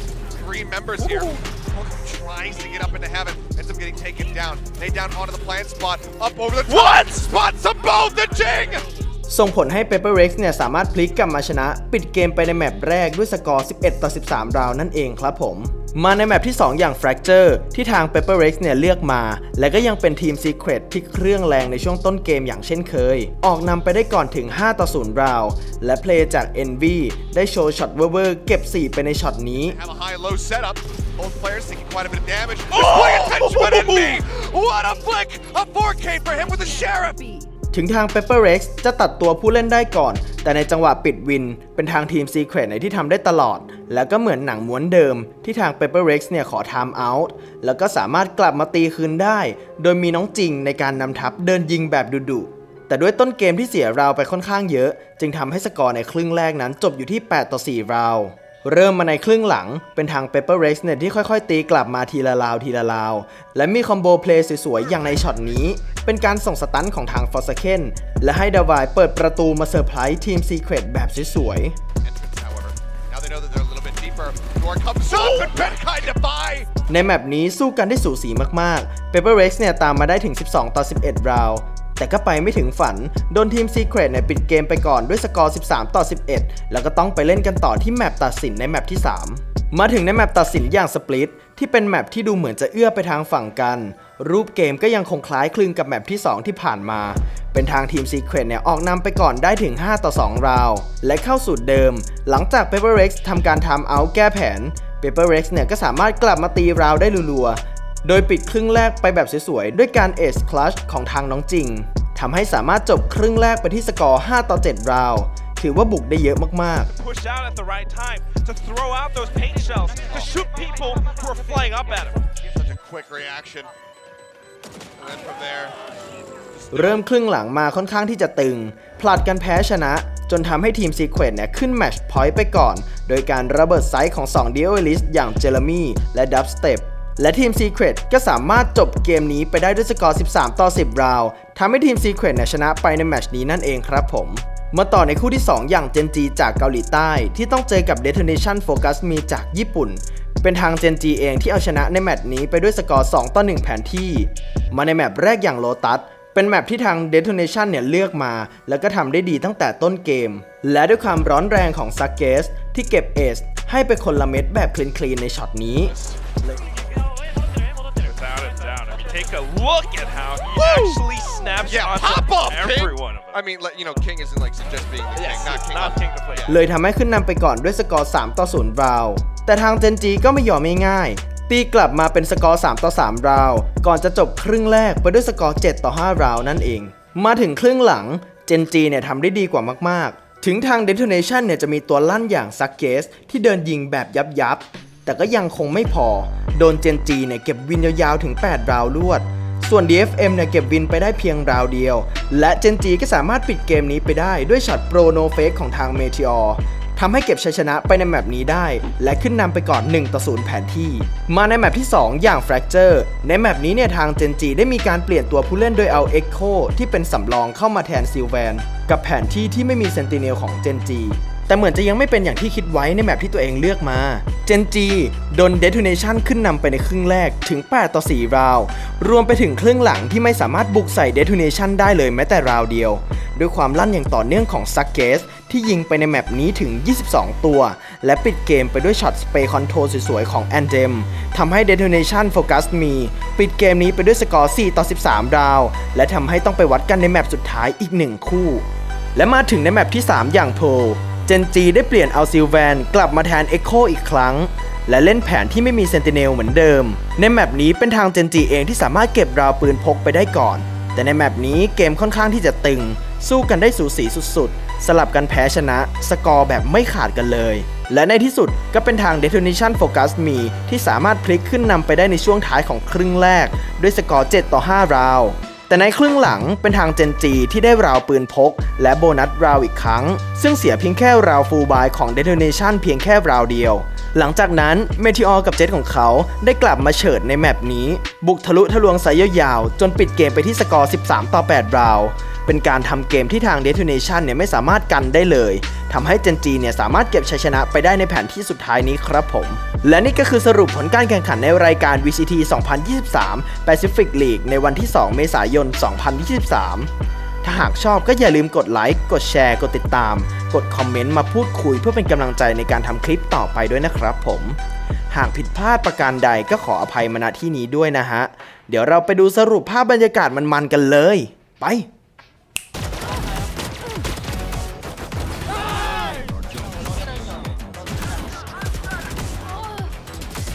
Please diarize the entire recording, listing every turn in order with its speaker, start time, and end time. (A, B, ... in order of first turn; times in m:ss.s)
0:00.3-0:08.9 A
0:06.7-0:07.1 B
0:09.3-0:29.8 C
0:29.7-0:37.2 A
0:32.7-0:34.2 B
0:37.7-1:11.8 C
1:12.0-1:16.7 A
1:15.1-1:15.5 B
1:16.9-1:56.9 C
1:56.9-2:02.2 B
2:02.4-2:03.7 A
2:05.0-2:05.8 A
2:06.7-2:45.9 C
2:45.9-2:46.2 A
2:46.6-2:53.4 B
2:50.6-2:51.0 A
2:51.6-2:56.6 A
2:55.1-2:56.5 B
2:56.5-5:06.9 C
5:07.4-5:14.6 C
5:15.1-5:21.9 C